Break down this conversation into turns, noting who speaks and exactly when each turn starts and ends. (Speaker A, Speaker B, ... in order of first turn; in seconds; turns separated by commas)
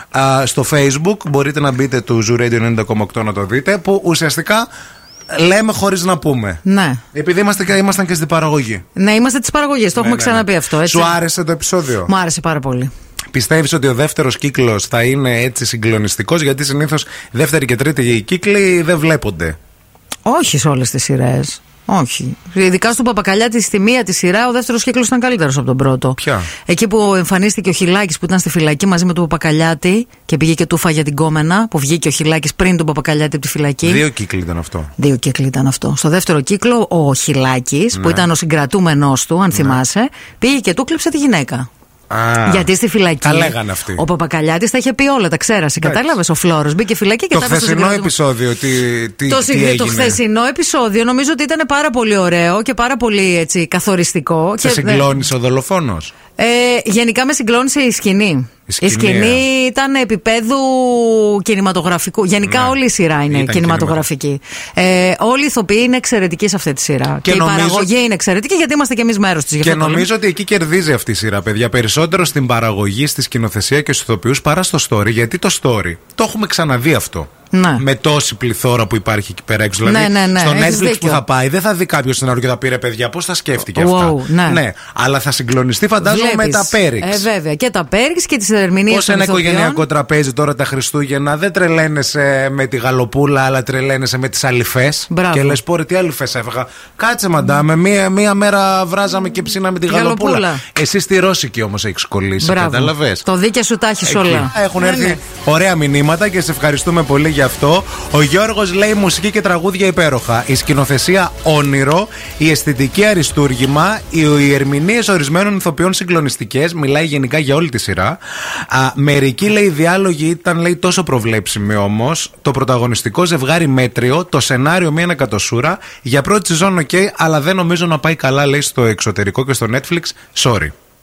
Speaker A: 0.1-4.7, Speaker A: 5.3-6.6, Speaker B: 6.6-7.0, Speaker A: 7.1-8.8, Speaker B: 8.9-11.2, Speaker A: 9.9-12.1, Speaker B: 12.1-12.9, Speaker A: 13.3-19.6, Speaker B: 20.2-34.0, Speaker A: 26.2-26.5, Speaker A: 33.8-34.9, Speaker B: 35.0-41.7, Speaker A: 37.9-38.2, Speaker A: 39.5-39.8, Speaker A: 42.1-42.7, Speaker B: 42.5-48.1, Speaker A: 43.2-44.0, Speaker A: 45.8-46.1, Speaker A: 47.3-50.2, Speaker B: 49.3-55.1, Speaker A: 54.6-56.1, Speaker B: 56.4-70.1, Speaker A: 58.7-59.4, Speaker A: 62.4-62.7, Speaker A: 63.3-64.0, Speaker A: 67.2-67.9, Speaker A: 69.6-87.2, Speaker B: 77.5-77.8, Speaker B: 79.8-81.2, Speaker B: 83.7-84.6, Speaker B: 86.0-89.8, Speaker A: 88.9-103.2, Speaker B: 95.1-95.6, Speaker B: 99.9-100.6, Speaker B: 102.4-105.2, Speaker A: 104.0-130.7